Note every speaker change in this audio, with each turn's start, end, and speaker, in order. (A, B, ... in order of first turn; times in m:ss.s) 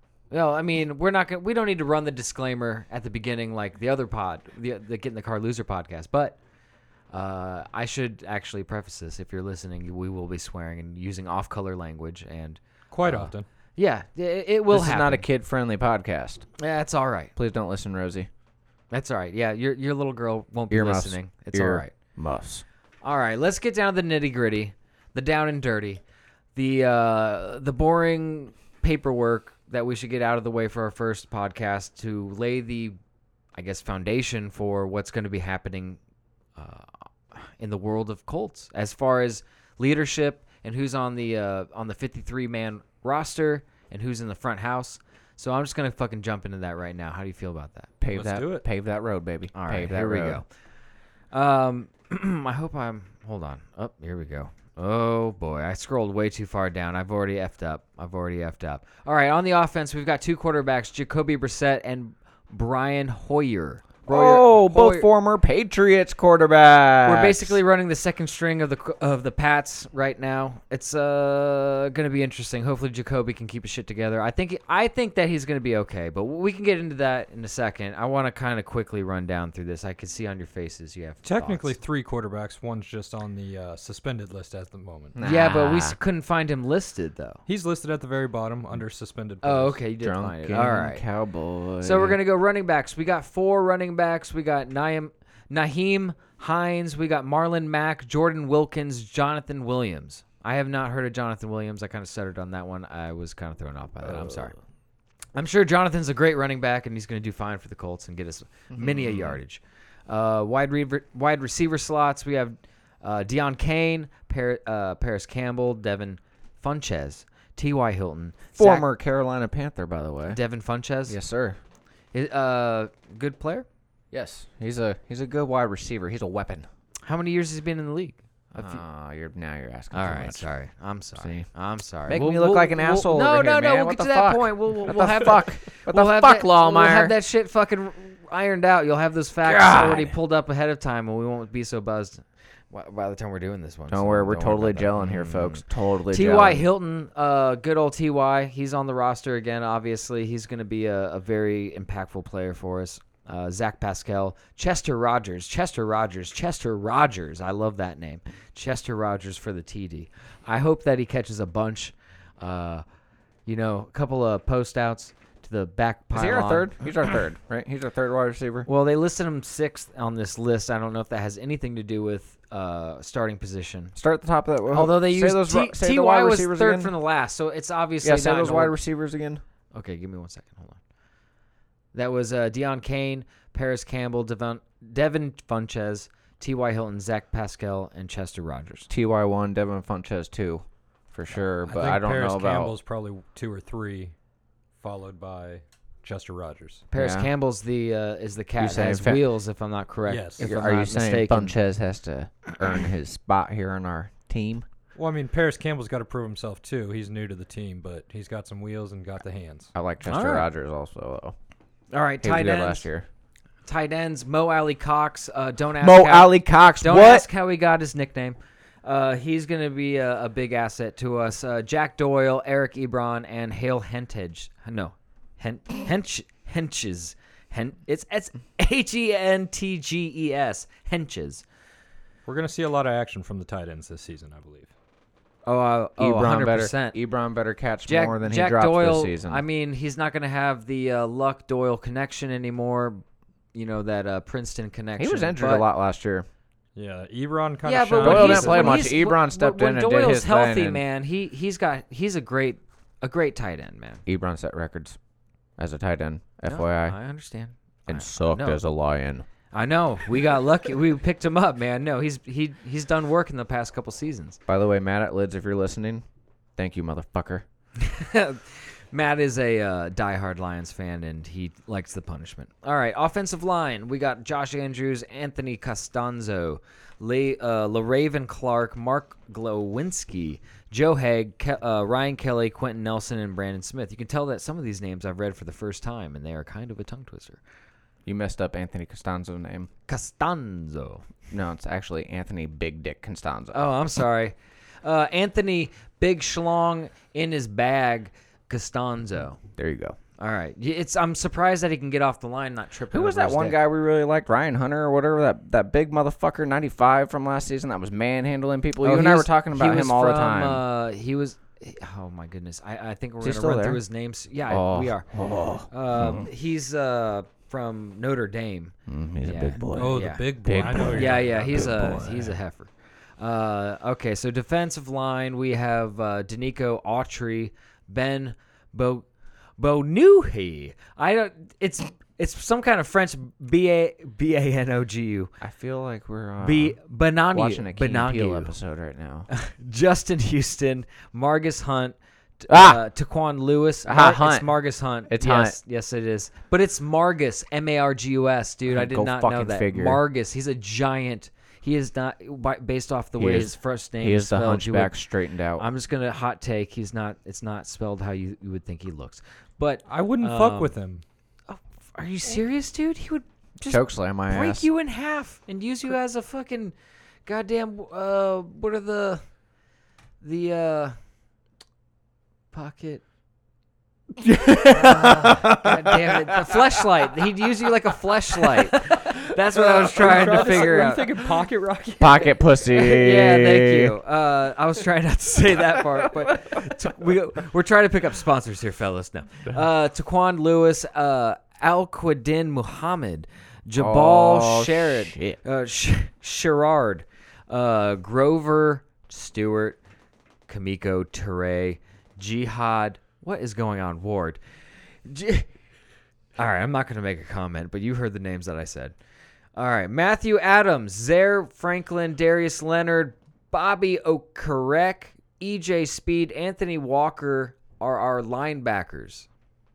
0:00.3-0:06.4 A
0:07.1-0:15.2 A
0:12.9-0:13.4 B
0:14.7-0:16.5 C
0:16.6-0:17.3 A
0:17.4-0:18.3 C
0:18.9-0:21.9 A
0:20.7-0:22.6 C
0:23.0-0:26.0 A
0:26.5-0:33.0 A
0:33.5-0:36.0 A
0:36.6-0:47.9 A
0:48.0-0:50.4 C
0:48.1-0:48.6 B
0:49.5-0:50.4 A
0:51.3-1:05.1 A
1:04.1-1:07.6 C
1:07.0-1:21.8 A
1:21.2-1:25.2 B
1:25.1-1:26.0 C
1:25.2-1:27.4 A
1:27.5-1:29.8 B
1:29.4-1:31.0 A
1:30.0-1:32.2 C
1:31.8-1:44.5 A
1:44.0-1:44.6 C
1:45.3-1:58.9 A
1:48.7-1:49.4 C
1:58.6-2:00.4 C
2:00.3-2:01.2 A
2:01.1-2:01.6 C
2:02.1-2:03.6 A
2:04.1-2:06.7 C
2:07.0-2:08.8 A
2:08.6-2:10.5 C
2:09.9-2:42.8 A
2:11.2-2:11.5 C
2:12.1-2:17.1 C
2:19.4-2:20.2 C
2:23.9-2:26.6 C
2:43.4-2:47.2 A
2:46.1-2:48.7 C
2:48.6-2:54.0 A
2:54.0-2:56.9 C
2:54.7-2:58.8 A
2:58.0-2:59.4 C
2:59.7-3:00.8 A
3:01.9-3:08.9 A
3:08.9-3:12.7 C
3:11.6-3:14.1 B
3:14.8-3:16.8 B
3:16.9-3:21.6 A
3:16.9-3:17.3 C
3:18.6-3:19.2 C
3:20.1-3:20.4 B
3:20.4-3:24.6 C
3:25.0-3:29.7 B
3:29.7-3:31.4 C
3:30.0-3:30.5 A
3:31.9-3:32.8 A
3:32.2-3:33.1 C
3:33.6-3:51.4 A
3:35.8-3:37.2 C
3:52.2-3:54.7 B
3:55.4-3:57.0 A
3:56.0-3:59.4 C
3:57.8-4:03.0 A
4:03.5-4:05.7 A
4:05.0-4:06.3 C
4:06.7-4:08.9 B
4:07.6-4:14.0 A
4:08.0-4:10.8 C
4:14.0-4:15.0 C
4:15.6-4:17.0 C
4:16.4-4:18.6 A
4:17.9-4:19.3 C
4:19.5-4:24.4 A
4:24.5-4:26.0 C
4:26.6-4:27.4 C
4:27.8-4:47.4 A
4:48.0-4:49.7 C
4:49.9-4:51.1 A
4:51.3-4:53.6 C
4:53.5-4:59.4 A
4:59.6-5:00.0 C
5:00.2-5:03.6 A
5:02.9-5:10.6 C
5:08.8-5:15.1 A
5:13.2-5:13.8 C
5:14.5-5:16.3 C
5:15.7-5:29.0 A
5:18.9-5:22.3 C
5:19.7-5:22.1 B
5:29.6-5:35.3 A
5:35.4-5:36.8 C
5:36.4-5:38.5 A
5:37.3-5:39.3 C
5:39.3-5:55.0 A
5:42.5-5:42.8 C
5:43.8-5:44.5 C
5:45.1-5:45.6 C
5:48.7-5:50.0 C
5:53.2-5:55.7 C
5:55.6-6:00.8 A
5:59.9-6:01.0 B
6:01.5-6:06.7 A
6:03.7-6:04.6 C
6:07.2-6:09.2 A
6:10.2-6:11.0 A
6:12.5-6:13.0 A
6:14.2-6:16.8 C
6:14.7-6:21.2 A
6:18.7-6:22.4 B
6:20.0-6:20.7 C
6:22.0-6:23.9 C
6:22.7-6:39.8 A
6:26.2-6:26.6 C
6:33.8-6:35.4 C
6:40.5-6:44.4 A
6:45.0-6:45.5 A
6:46.4-6:48.9 A
6:49.6-6:59.3 A